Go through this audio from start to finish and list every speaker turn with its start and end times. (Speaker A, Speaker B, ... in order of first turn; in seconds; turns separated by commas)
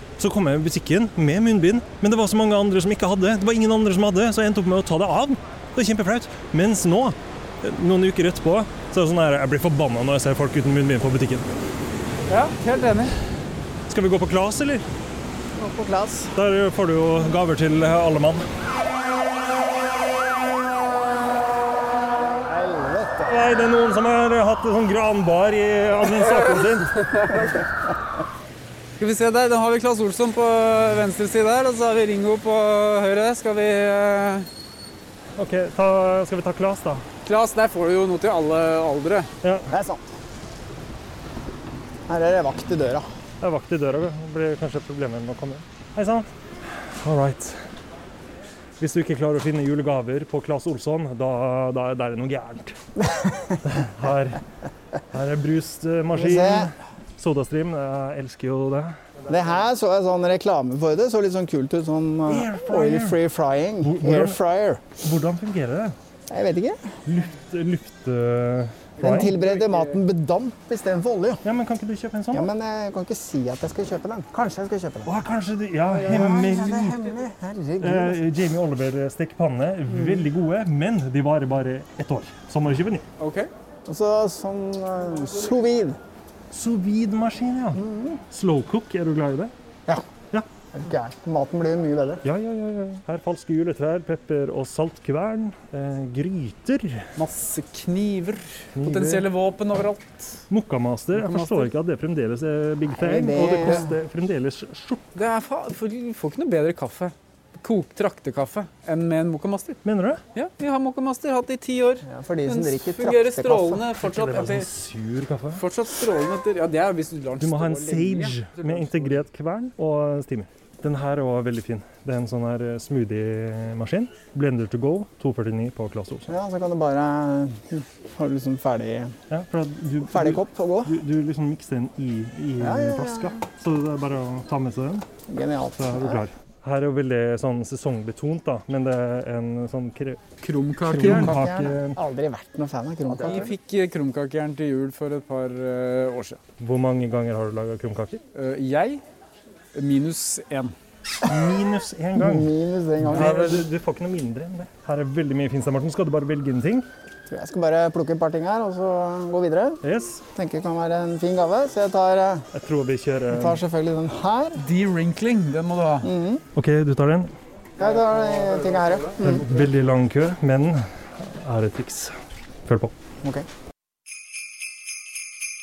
Speaker A: 0.2-11.5, Speaker B: 12.3-13.1, Speaker A: 13.9-14.8, Speaker C: 15.6-16.4, Speaker A: 16.3-18.4, Speaker C: 22.4-23.3, Speaker A: 23.2-27.2, Speaker B: 29.0-34.5, Speaker A: 35.4-37.0, Speaker B: 37.2-39.3, Speaker C: 39.7-40.0, Speaker C: 42.1-43.0, Speaker A: 43.4-46.3, Speaker A: 47.0-47.5, Speaker A: 48.8-52.7, Speaker A: 53.6-54.4, Speaker A: 55.1-58.9, Speaker C: 56.1-56.7, Speaker C: 59.3-64.9, Speaker A: 62.3-63.1, Speaker A: 63.8-64.4, Speaker A: 65.0-65.9, Speaker C: 66.3-66.8, Speaker A: 67.1-69.3, Speaker C: 69.0-71.4, Speaker B: 69.0-69.9, Speaker A: 71.4-72.5, Speaker C: 72.3-75.2, Speaker A: 75.0-76.9, Speaker C: 75.9-78.2, Speaker A: 77.8-83.0, Speaker B: 83.2-83.5, Speaker C: 83.8-86.0, Speaker A: 86.5-89.5, Speaker C: 87.8-88.2, Speaker C: 90.7-92.2, Speaker A: 92.2-97.0, Speaker B: 97.2-100.4, Speaker A: 98.8-99.2, Speaker A: 100.5-105.0, Speaker B: 101.1-101.7, Speaker C: 102.9-103.9, Speaker B: 105.1-109.8, Speaker A: 109.8-110.2, Speaker B: 110.3-114.7, Speaker C: 112.0-113.8, Speaker A: 114.0-115.6, Speaker B: 115.5-118.6, Speaker A: 117.4-126.3, Speaker C: 126.3-129.1, Speaker A: 129.3-135.0, Speaker C: 130.1-131.0, Speaker C: 132.6-133.4, Speaker C: 135.3-136.2, Speaker A: 135.8-140.2, Speaker B: 140.4-141.3, Speaker C: 140.9-143.5, Speaker A: 141.0-141.9, Speaker B: 143.2-146.4, Speaker A: 146.6-148.2, Speaker B: 148.3-149.0, Speaker B: 149.7-150.7, Speaker A: 151.2-152.5, Speaker C: 152.2-153.6, Speaker A: 153.1-156.9, Speaker C: 157.3-159.8, Speaker A: 159.8-160.2, Speaker C: 160.3-162.5, Speaker A: 162.5-163.6, Speaker C: 163.3-164.6, Speaker B: 164.6-166.1, Speaker C: 166.0-166.4, Speaker A: 166.5-167.3, Speaker C: 167.8-169.4, Speaker A: 169.2-170.8, Speaker A: 171.4-172.1, Speaker A: 172.7-172.9